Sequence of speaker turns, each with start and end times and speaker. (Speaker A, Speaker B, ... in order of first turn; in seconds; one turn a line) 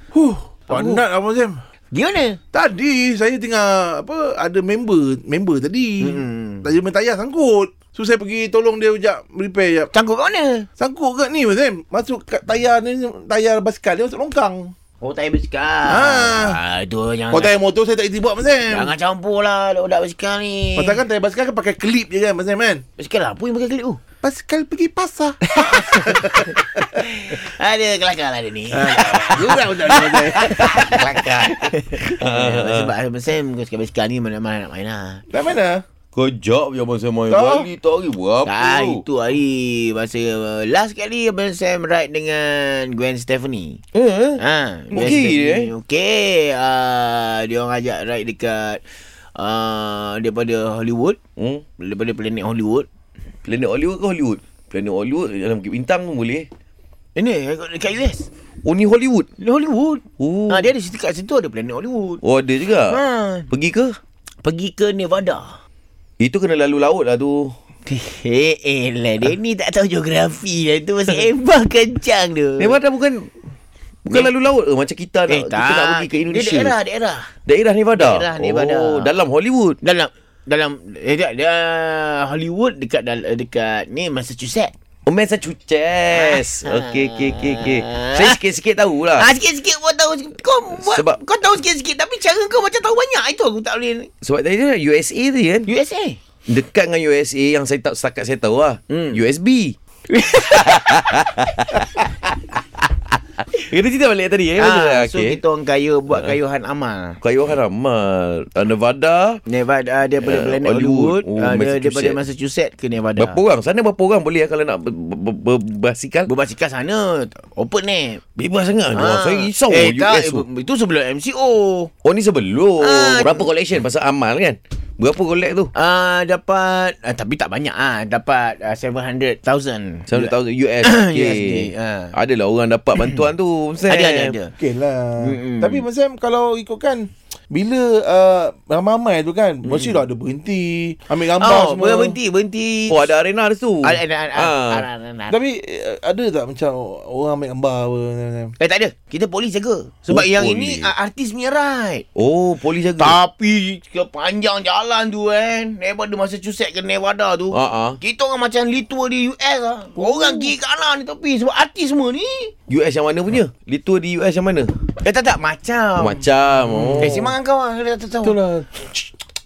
Speaker A: 0.1-1.6
Speaker B: 0.7-1.0
Speaker B: 1.9-2.4
Speaker A: 2.5-9.9
Speaker B: 6.0-6.7
Speaker B: 9.9-10.7
Speaker A: 10.8-14.7
Speaker B: 15.0-17.5
Speaker A: 15.9-16.6
Speaker A: 17.3-18.9
Speaker B: 18.7-21.0
Speaker A: 20.8-22.8
Speaker B: 23.0-24.0
Speaker A: 24.2-26.5
Speaker B: 25.5-35.2
Speaker A: 28.7-30.9
Speaker C: 30.5-32.9
Speaker A: 35.3-35.8
Speaker C: 36.1-39.0
Speaker A: 37.3-37.7
Speaker B: 38.5-43.8
Speaker C: 43.9-44.4
Speaker B: 44.4-48.8
Speaker C: 44.9-45.7
Speaker B: 49.3-51.2
Speaker C: 51.4-51.6
Speaker B: 51.8-52.9
Speaker C: 53.5-56.5
Speaker B: 57.1-58.3
Speaker C: 58.6-59.3
Speaker B: 59.4-62.2
Speaker C: 60.2-60.7
Speaker C: 62.2-64.0
Speaker B: 62.9-63.5
Speaker B: 64.4-65.6
Speaker C: 66.2-67.5
Speaker B: 67.9-72.8
Speaker C: 72.6-73.3
Speaker C: 74.0-76.7
Speaker B: 75.3-77.3
Speaker C: 77.5-79.8
Speaker B: 77.9-79.1
Speaker B: 79.8-84.7
Speaker C: 85.1-89.3
Speaker B: 86.1-88.4
Speaker B: 89.1-94.1
Speaker C: 90.8-91.2
Speaker C: 94.2-95.7
Speaker B: 95.7-96.2
Speaker C: 96.5-99.8
Speaker B: 98.9-99.2
Speaker B: 100.1-102.0
Speaker C: 100.6-102.1
Speaker C: 103.5-105.4
Speaker B: 104.6-107.2
Speaker C: 107.2-109.4
Speaker B: 109.5-113.4
Speaker C: 110.2-112.2
Speaker C: 113.2-116.3
Speaker B: 116.3-118.2
Speaker C: 118.4-120.5
Speaker B: 118.9-121.9
Speaker C: 122.0-125.7
Speaker B: 122.8-123.5
Speaker B: 125.7-132.1
Speaker C: 130.1-134.3
Speaker B: 133.0-133.2
Speaker B: 133.9-134.5
Speaker A: 134.6-142.2
Speaker B: 135.2-135.8
Speaker B: 139.7-139.9
Speaker B: 141.4-143.1
Speaker C: 142.9-144.8
Speaker B: 143.8-145.3
Speaker A: 145.3-148.5
Speaker B: 148.6-152.0
Speaker C: 150.1-150.9
Speaker C: 152.1-153.2
Speaker B: 153.0-162.5
Speaker C: 157.5-158.0
Speaker A: 160.0-160.5
Speaker C: 162.7-164.7
Speaker B: 165.0-166.3
Speaker C: 166.0-167.3
Speaker A: 166.7-167.2
Speaker B: 167.0-168.4
Speaker A: 168.2-169.0